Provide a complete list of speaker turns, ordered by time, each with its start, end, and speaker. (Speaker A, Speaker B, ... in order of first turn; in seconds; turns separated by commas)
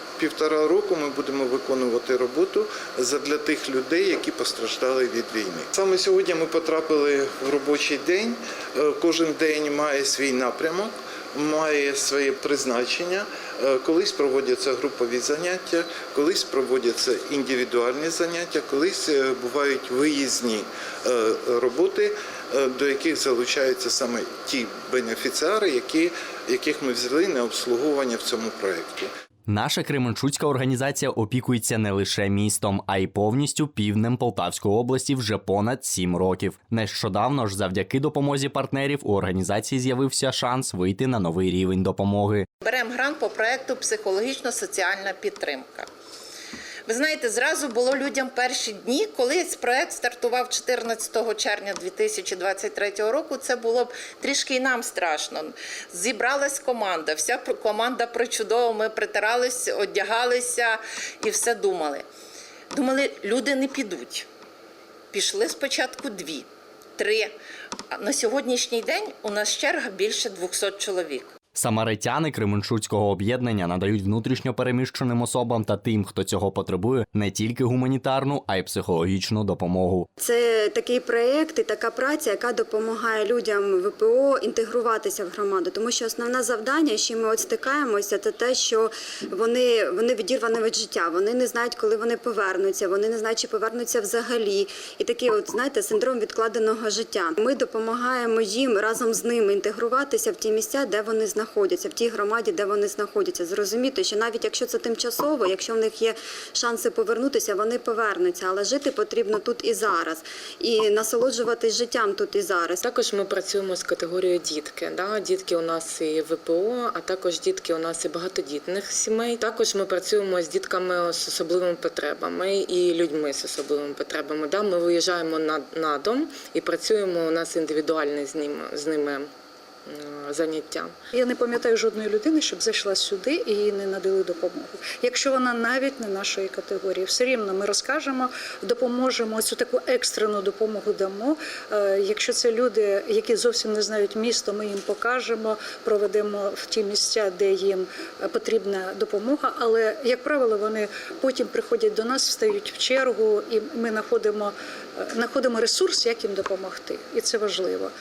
Speaker A: 0.2-29.1, Speaker B: 29.5-42.4, Speaker C: 42.6-45.9, Speaker C: 46.9-62.0, Speaker C: 62.7-64.2, Speaker C: 65.1-66.5, Speaker C: 67.0-67.3, Speaker C: 67.9-71.3, Speaker B: 71.5-80.1, Speaker D: 80.2-112.8, Speaker E: 112.8-129.3, Speaker E: 129.9-130.9, Speaker F: 131.1-154.5, Speaker F: 155.1-157.9